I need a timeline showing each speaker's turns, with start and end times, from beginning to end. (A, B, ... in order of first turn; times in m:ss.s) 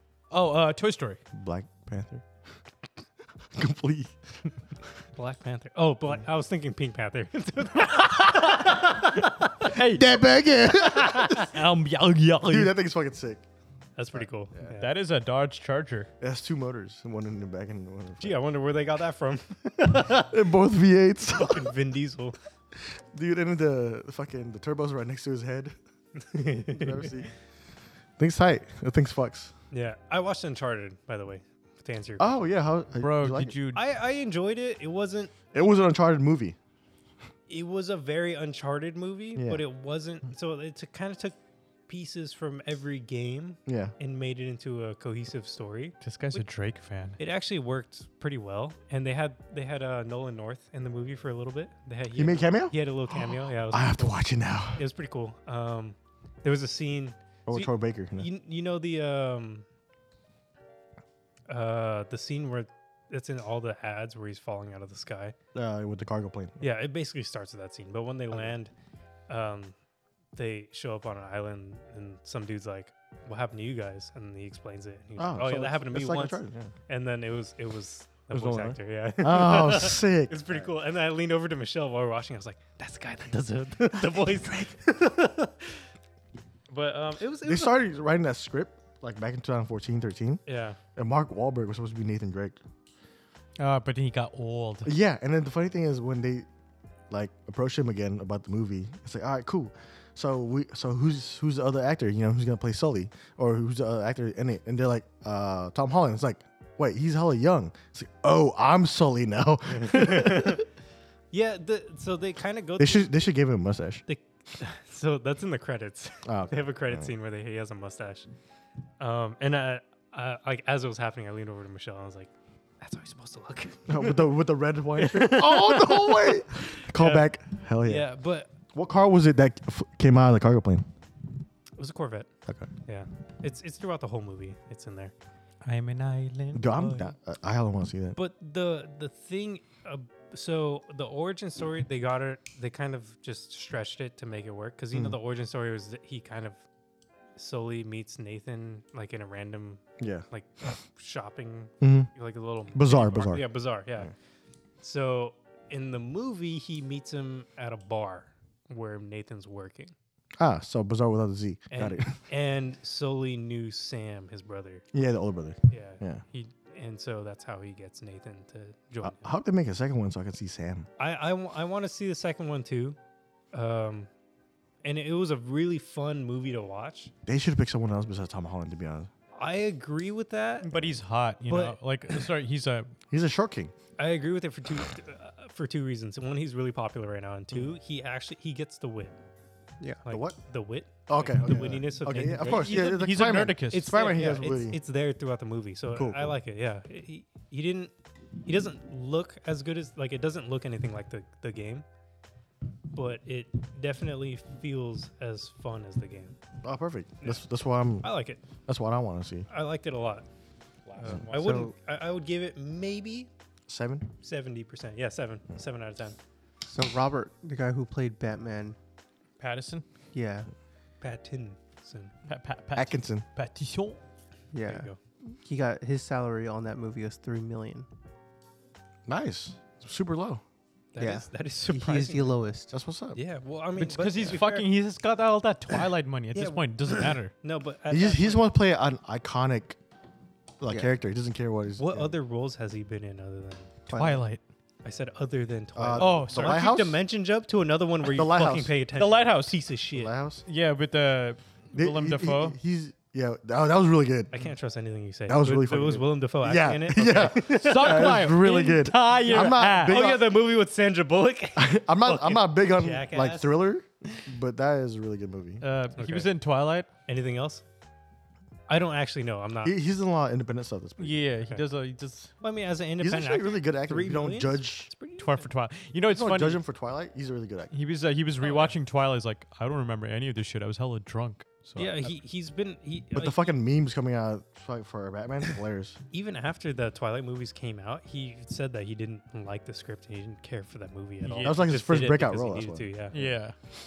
0:00.3-0:01.2 A
0:01.3-0:02.2 B
0:03.5-0:04.2 B
0:05.2-0:09.5 C
0:09.6-0:10.0 A
0:09.7-0:11.4 B
0:11.0-0:11.4 C
0:11.4-0:12.7 A
0:12.4-0:13.4 B
0:14.0-0:14.9 C
0:14.1-0:14.7 B
0:14.7-0:16.1 A
0:16.2-0:18.4 B
0:18.2-0:20.3 C
0:20.1-0:21.7 B
0:21.3-0:22.4 C
0:22.8-0:25.7 B
0:26.2-0:27.3 C
0:26.6-0:27.3 B
0:28.2-0:29.5 B
0:29.7-0:32.4 C
0:32.2-0:33.6 B
0:33.0-0:33.8 A
0:33.7-0:35.3 C
0:35.5-0:36.6 B
0:37.5-0:41.4 C
0:39.4-0:39.6 B
0:41.9-0:46.4 C
0:43.6-0:43.9 B
0:46.0-0:47.2 A
0:47.2-0:54.2 C
0:52.1-0:52.7 B
0:53.7-0:54.8 B
0:54.7-0:59.6 C
0:57.4-0:58.3 B
1:01.5-1:05.4 C
1:05.5-1:06.7 B
1:06.6-1:08.7 C
1:09.3-1:09.7 C
1:10.3-1:25.8 C
1:15.2-1:16.7 B
1:18.3-1:20.6 B
1:24.3-1:24.7 B
1:26.7-1:27.8 C
1:27.4-1:30.4 B
1:30.4-1:30.8 C
1:31.0-1:32.6 B
1:33.6-1:34.9 A
1:34.8-1:36.5 B
1:37.1-1:50.6 B
1:49.7-1:50.6 C
1:51.3-1:53.1 C
1:52.8-1:54.0 B
1:54.1-1:58.3 C
1:56.2-1:57.1 B
1:59.0-2:04.4 C
2:03.9-2:08.1 B
2:04.9-2:07.3 C
2:07.8-2:08.5 C
2:08.7-2:10.9 B
2:11.8-2:12.3 C
2:12.8-2:15.1 C
2:15.6-2:17.0 A
2:16.5-2:18.2 B
2:16.8-2:17.0 C
2:18.2-2:26.6 C
2:27.4-2:34.1 C
2:30.0-2:30.2 B
2:31.8-2:32.1 B
2:32.7-2:34.1 B
2:34.8-2:39.9 C
2:40.4-2:42.2 B
2:41.7-2:44.8 C
2:44.9-2:46.2 B
2:45.7-2:49.3 C
2:49.0-2:50.9 B
2:51.0-2:53.0 C
2:53.5-2:54.1 C
2:54.8-2:57.1 C
2:57.2-2:59.1 B
2:59.3-3:00.9 C
3:00.6-3:02.9 A
3:01.5-3:01.8 C
3:03.1-3:03.7 B
3:04.0-3:09.1 C
3:10.0-3:13.0 C
3:10.1-3:10.4 B
3:11.1-3:14.8 B
3:12.1-3:13.9 A
3:13.7-3:17.9 C
3:15.9-3:16.3 B
3:18.4-3:21.8 C
3:22.9-3:26.4 C
3:26.6-3:28.1 B
3:28.0-3:28.4 C
3:28.6-3:29.5 B
3:29.5-3:30.2 C
3:30.9-3:31.6 A
3:31.2-3:31.7 D
3:31.3-3:33.3 C
3:33.7-3:34.1 B
3:34.2-3:36.2 C
3:36.6-3:38.8 D
3:39.4-3:39.8 A
3:40.1-3:40.5 D
3:41.0-3:42.1 C
3:42.3-3:44.0 A
3:42.7-3:43.2 B
3:44.5-3:47.9 D
3:44.6-3:45.0 C
3:49.1-3:50.4 B
3:50.9-3:52.4 C
3:51.0-3:52.7 D
3:52.7-3:53.2 B
3:53.1-3:54.7 C
3:53.8-3:57.3 A
3:56.3-3:58.4 C
3:57.9-3:59.8 B
4:00.6-4:02.1 B
4:01.8-4:03.7 C
4:03.9-4:04.2 D
4:03.9-4:04.4 A
4:04.8-4:10.1 C
4:05.7-4:07.0 B
4:06.0-4:06.7 A
4:08.0-4:08.7 B
4:09.0-4:09.6 A
4:09.9-4:10.4 B
4:10.5-4:12.6 A
4:11.7-4:14.3 B
4:14.3-4:18.2 C
4:15.3-4:20.3 B
4:17.4-4:20.1 A
4:19.3-4:23.6 C
4:21.6-4:25.6 B
4:25.6-4:26.9 A
4:26.0-4:26.3 C
4:27.0-4:27.6 C
4:28.7-4:29.7 C
4:29.6-4:31.2 B
4:31.0-4:32.3 A
4:32.4-4:35.5 C
4:33.0-4:34.9 B
4:35.2-4:36.6 A
4:36.1-4:37.7 B
4:37.7-4:42.1 A
4:38.4-4:38.8 C
4:41.8-4:43.6 C
4:43.1-4:46.0 B
4:46.1-4:53.2 C
4:51.2-4:51.6 A
4:51.4-4:53.3 B
4:53.1-4:53.5 A